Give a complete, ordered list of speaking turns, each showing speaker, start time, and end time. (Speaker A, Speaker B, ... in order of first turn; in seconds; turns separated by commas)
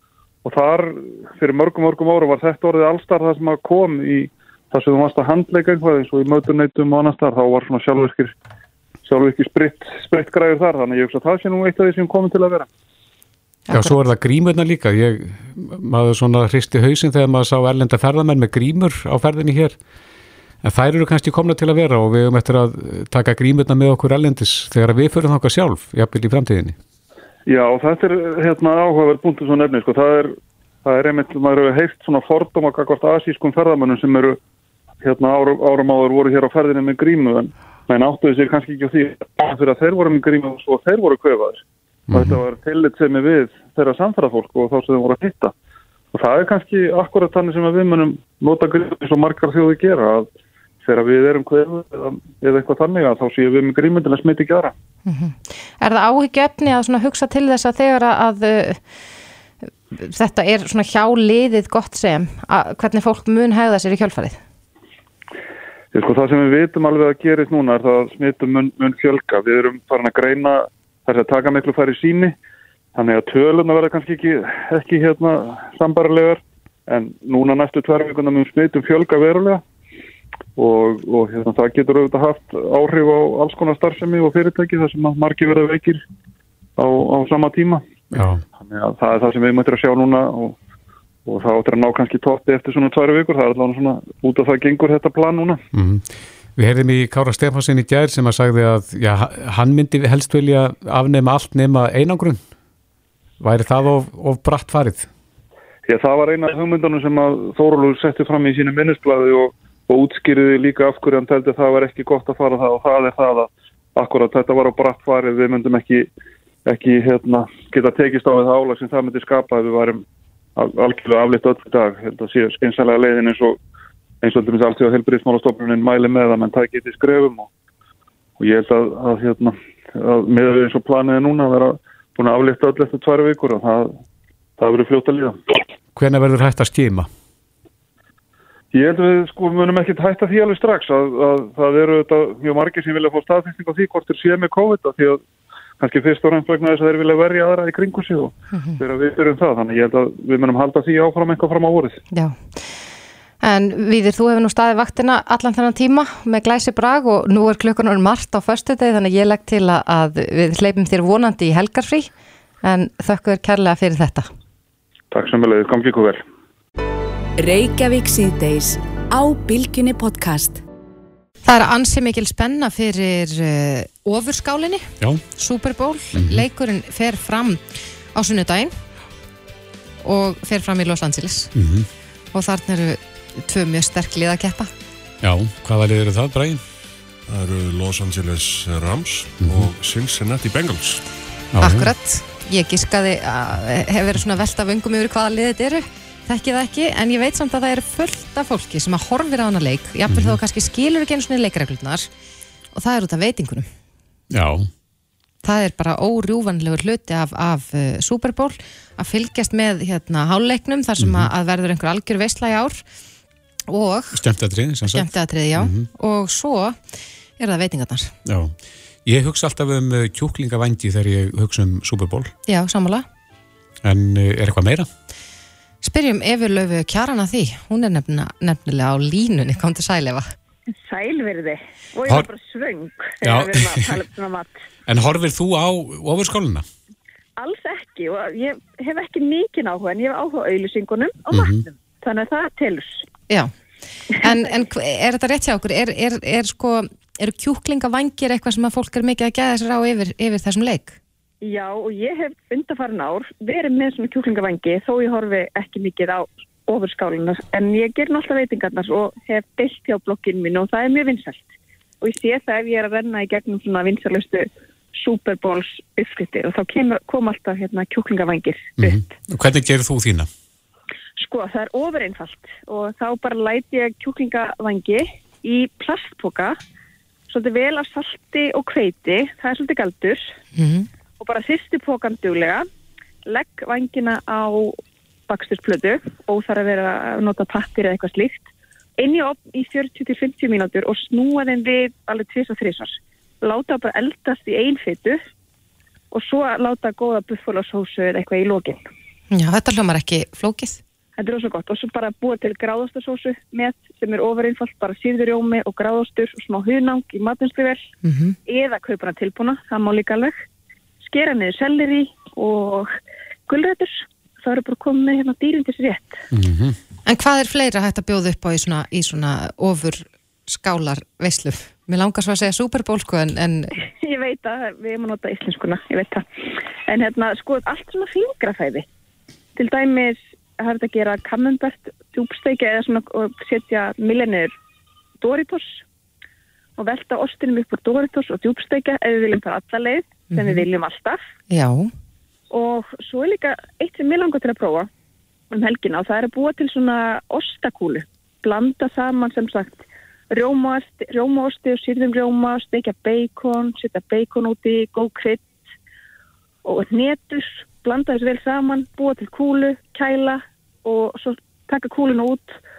Speaker A: 0.4-8.3, Speaker A: 9.1-12.7, Speaker B: 13.7-14.0, Speaker C: 13.7-19.8, Speaker C: 20.6-26.8, Speaker A: 27.5-34.4, Speaker A: 35.0-45.5, Speaker C: 42.1-42.4, Speaker A: 46.1-50.3, Speaker A: 50.8-54.7, Speaker B: 55.0-58.8, Speaker B: 59.9-64.4, Speaker A: 65.9-72.3, Speaker A: 72.9-79.6, Speaker A: 80.6-86.0, Speaker A: 86.8-87.9, Speaker C: 88.1-88.4, Speaker A: 88.6-90.5, Speaker A: 91.2-95.6, Speaker C: 95.7-102.4, Speaker C: 103.4-105.1, Speaker A: 105.9-116.1, Speaker A: 116.7-120.0, Speaker A: 120.5-123.6, Speaker A: 124.2-127.5, Speaker A: 128.4-133.9, Speaker A: 134.6-135.4, Speaker C: 135.9-137.1, Speaker A: 138.7-145.2, Speaker A: 145.8-152.0, Speaker B: 152.1-152.6, Speaker B: 153.4-162.1, Speaker B: 162.6-164.3, Speaker A: 165.1-166.2, Speaker D: 167.4-170.6, Speaker B: 171.4-174.8, Speaker B: 175.4-178.7, Speaker C: 176.2-176.4, Speaker B: 180.0-181.5, Speaker C: 181.6-181.9, Speaker B: 182.3-184.7, Speaker C: 185.2-186.6, Speaker E: 187.3-191.0, Speaker C: 189.4-189.7, Speaker C: 191.5-191.9, Speaker B: 191.6-202.1, Speaker C: 200.1-200.4, Speaker B: 202.7-203.7, Speaker C: 204.3-204.7, Speaker B: 205.4-212.8, Speaker C: 211.0-211.3, Speaker B: 213.7-214.2, Speaker C: 214.1-215.9, Speaker B: 214.9-216.8, Speaker B: 217.4-218.1, Speaker C: 218.2-222.3, Speaker B: 222.5-223.0, Speaker C: 223.8-224.9, Speaker B: 225.8-230.3, Speaker F: 230.8-234.6, Speaker C: 233.2-234.0, Speaker C: 234.9-236.6, Speaker F: 237.4-243.1, Speaker C: 241.3-241.6, Speaker B: 244.2-251.0, Speaker F: 251.4-269.0, Speaker C: 268.8-270.3, Speaker F: 271.2-276.6, Speaker F: 277.3-280.3, Speaker B: 280.6-280.9, Speaker F: 281.2-282.6, Speaker F: 283.2-295.2, Speaker F: 296.1-298.8, Speaker B: 299.3-300.8, Speaker F: 301.2-307.9, Speaker B: 308.0-308.4, Speaker F: 308.4-310.4, Speaker F: 311.0-312.9, Speaker F: 313.5-316.2, Speaker C: 316.3-316.8, Speaker B: 317.1-323.7, Speaker F: 323.8-326.2, Speaker F: 326.9-328.9, Speaker F: 329.6-334.5, Speaker F: 335.2-335.8, Speaker F: 336.8-341.2, Speaker B: 340.3-340.6, Speaker B: 341.5-341.9, Speaker F: 342.5-344.9, Speaker F: 345.5-355.6, Speaker F: 356.6-362.6